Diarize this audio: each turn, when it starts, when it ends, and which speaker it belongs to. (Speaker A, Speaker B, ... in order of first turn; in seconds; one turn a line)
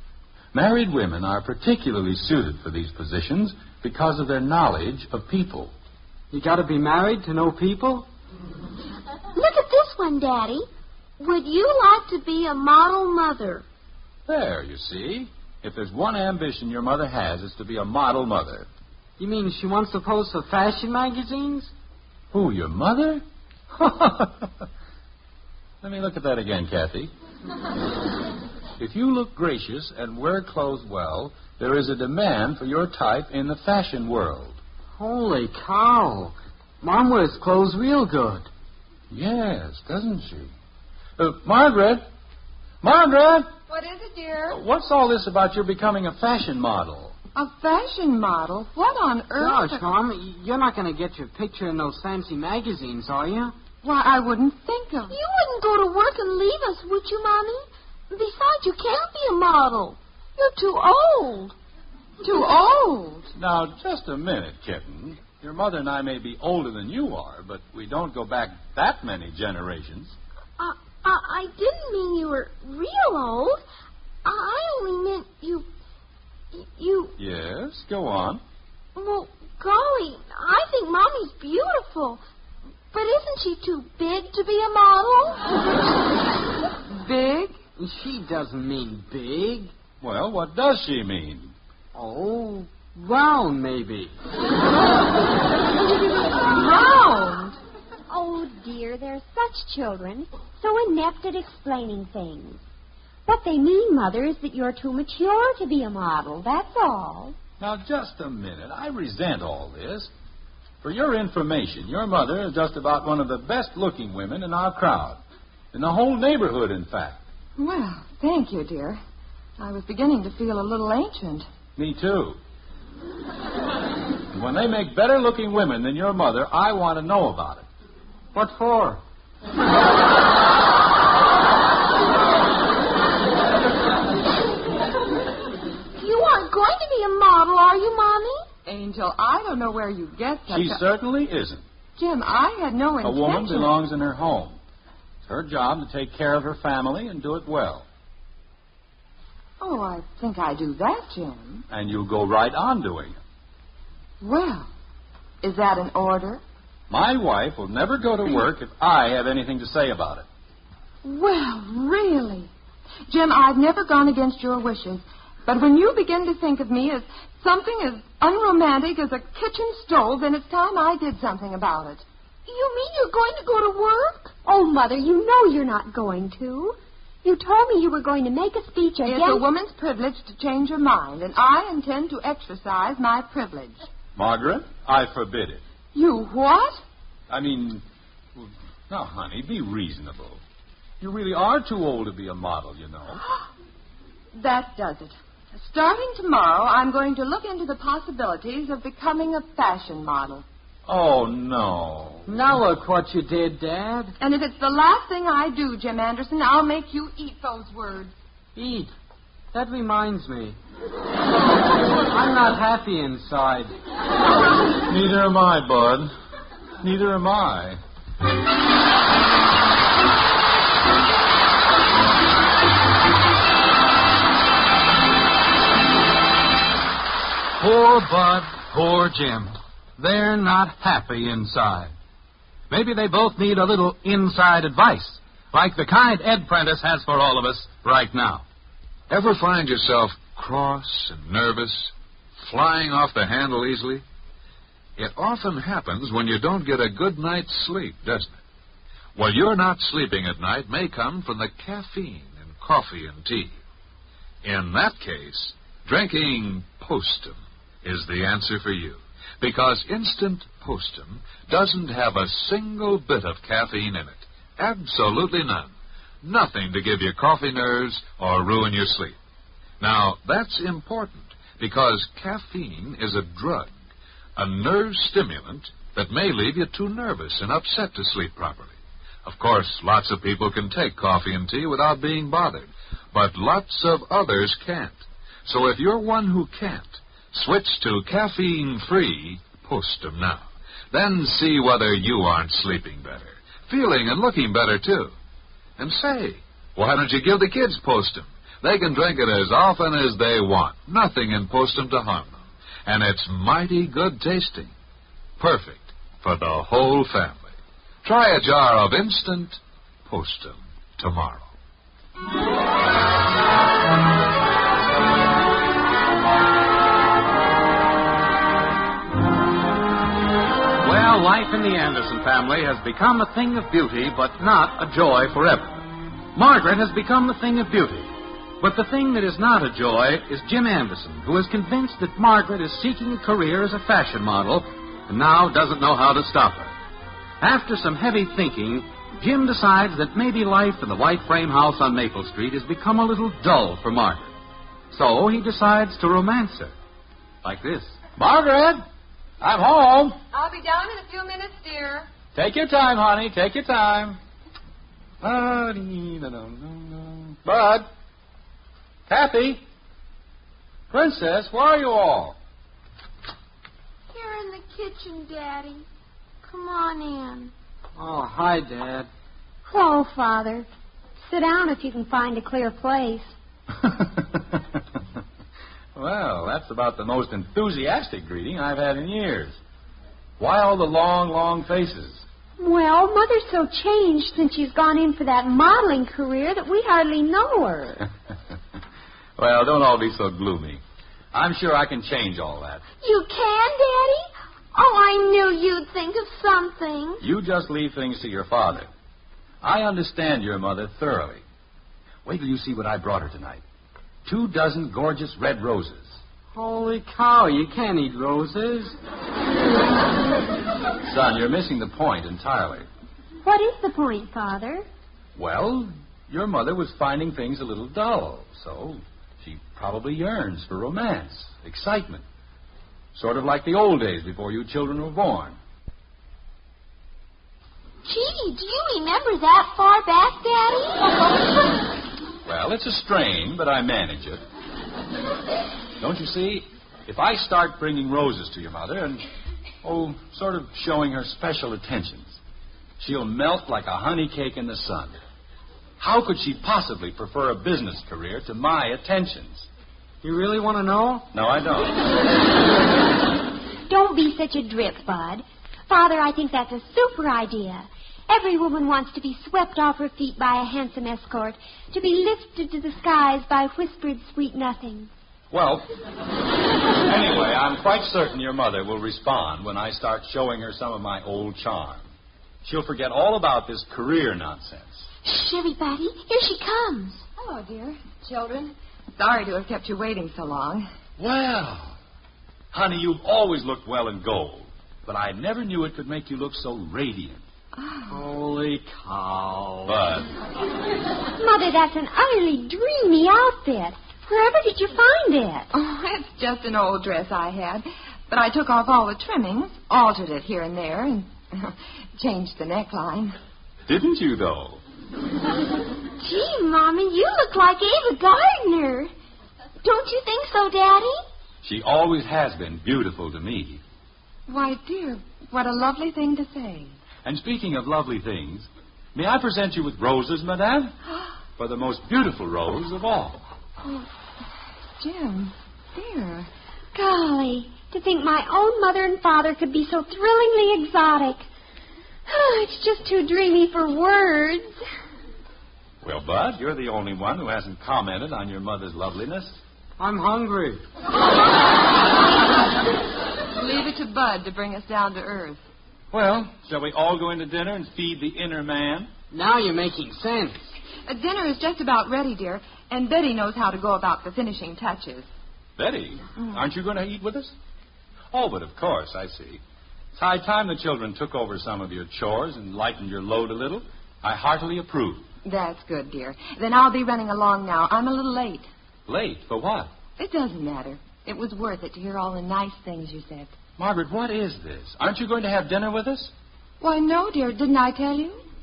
Speaker A: 0.5-5.7
Speaker B: 6.3-8.1
Speaker C: 9.3-10.7
Speaker C: 11.2-13.7
Speaker A: 14.3-18.7
Speaker B: 19.2-21.7
Speaker A: 22.3-24.6
Speaker A: 25.8-27.1
Speaker A: 28.8-34.6
Speaker B: 35.0-38.5
Speaker A: 39.1-40.5
Speaker A: 41.2-42.0
Speaker A: 42.8-43.5
Speaker D: 43.7-44.6
Speaker A: 44.5-47.1
Speaker D: 47.4-49.8
Speaker B: 49.4-53.5
Speaker D: 53.8-55.2
Speaker C: 55.1-61.5
Speaker D: 62.2-63.3
Speaker A: 63.4-70.2
Speaker C: 70.6-73.6
Speaker C: 74.2-75.7
Speaker C: 76.5-77.1
Speaker A: 77.2-78.4
Speaker C: 79.0-82.2
Speaker C: 82.9-85.5
Speaker D: 87.0-87.6
Speaker B: 87.8-89.7
Speaker A: 90.0-91.5
Speaker B: 91.9-94.1
Speaker D: 96.4-97.6
Speaker E: 98.1-102.6
Speaker E: 103.3-107.4
Speaker A: 107.6-110.1
Speaker A: 110.8-115.2
Speaker A: 115.7-117.2
Speaker D: 117.6-119.0
Speaker D: 119.6-121.5
Speaker A: 121.8-122.4
Speaker A: 124.3-127.7
Speaker B: 128.3-129.0
Speaker C: 136.0-138.5
Speaker D: 138.7-140.8
Speaker A: 140.5-141.6
Speaker D: 142.0-143.7
Speaker A: 143.0-144.6
Speaker A: 145.2-147.9
Speaker D: 149.6-151.7
Speaker A: 151.7-153.2
Speaker D: 154.2-154.7
Speaker D: 155.4-156.4
Speaker A: 156.9-160.3
Speaker D: 161.0-162.5
Speaker D: 163.1-172.1
Speaker C: 172.5-174.3
Speaker E: 174.4-179.4
Speaker D: 179.1-183.8
Speaker A: 184.2-185.6
Speaker D: 185.9-186.8
Speaker A: 187.3-187.8
Speaker A: 188.4-190.4
Speaker A: 191.0-193.2
Speaker D: 194.3-200.4
Speaker A: 200.9-202.3
Speaker B: 202.3-204.2
Speaker D: 204.2-208.1
Speaker B: 208.6-208.9
Speaker B: 209.5-210.6
Speaker B: 212.0-213.7
Speaker A: 214.9-216.1
Speaker A: 216.8-217.8
Speaker F: 227.6-231.9
Speaker F: 232.7-238.4
Speaker G: 239.1-244.0
Speaker G: 245.0-248.4
Speaker G: 249.2-253.6
Speaker G: 254.4-269.2
Speaker G: 269.8-273.7
Speaker G: 274.4-278.7
Speaker G: 279.2-295.1
Speaker G: 295.8-304.7
Speaker G: 305.4-307.5
Speaker G: 308.0-311.5
Speaker F: 320.8-336.7
Speaker F: 337.4-344.3
Speaker F: 344.9-346.8
Speaker F: 347.4-347.9
Speaker A: 348.1-348.8
Speaker A: 349.4-350.2
Speaker D: 350.3-352.1
Speaker A: 352.3-354.2
Speaker A: 355.2-357.9
Speaker A: 359.1-359.6
Speaker A: 360.9-362.4
Speaker C: 364.1-365.9
Speaker C: 366.4-367.5
Speaker B: 368.0-369.1
Speaker E: 369.7-370.7
Speaker E: 371.2-373.3
Speaker A: 373.8-374.8
Speaker A: 375.9-379.6
Speaker A: 380.4-382.2
Speaker E: 382.6-388.1
Speaker A: 389.4-390.8
Speaker A: 391.3-392.8
Speaker C: 393.0-397.2
Speaker A: 397.2-398.9
Speaker A: 399.6-401.4
Speaker A: 402.2-403.6
Speaker A: 404.2-406.2
Speaker B: 406.5-409.0
Speaker A: 411.1-412.9
Speaker E: 413.4-414.9
Speaker A: 415.4-422.2
Speaker A: 423.1-425.6
Speaker C: 428.1-431.3
Speaker A: 432.4-434.4
Speaker A: 436.0-439.3
Speaker A: 439.8-442.4
Speaker A: 443.0-445.2
Speaker A: 446.0-449.7
Speaker B: 450.2-451.3
Speaker A: 451.3-452.0
Speaker E: 453.9-465.1
Speaker A: 465.5-465.9
Speaker A: 467.0-472.1
Speaker A: 472.6-475.1
Speaker C: 475.2-477.2
Speaker D: 477.4-480.9
Speaker A: 481.2-482.0
Speaker A: 482.7-487.4
Speaker D: 487.8-488.2
Speaker B: 488.1-490.0
Speaker A: 489.9-490.3
Speaker E: 491.4-495.7
Speaker D: 495.7-503.4
Speaker A: 503.9-504.8
Speaker C: 506.2-509.1
Speaker C: 509.8-511.2
Speaker A: 511.6-513.8
Speaker D: 514.5-517.0
Speaker A: 517.2-521.0
Speaker A: 521.6-523.4
Speaker D: 523.8-524.1
Speaker D: 525.0-526.5
Speaker E: 526.9-531.5
Speaker E: 532.3-534.8
Speaker A: 536.0-539.6
Speaker B: 540.0-540.8
Speaker D: 543.5-545.6
Speaker A: 546.1-549.1
Speaker B: 549.3-550.6
Speaker D: 551.1-555.3
Speaker A: 555.8-557.5
Speaker A: 558.3-559.6
Speaker A: 560.1-565.3
Speaker D: 565.5-568.7
Speaker A: 569.1-569.9
Speaker D: 570.2-573.5
Speaker A: 573.8-576.3
Speaker D: 576.8-578.4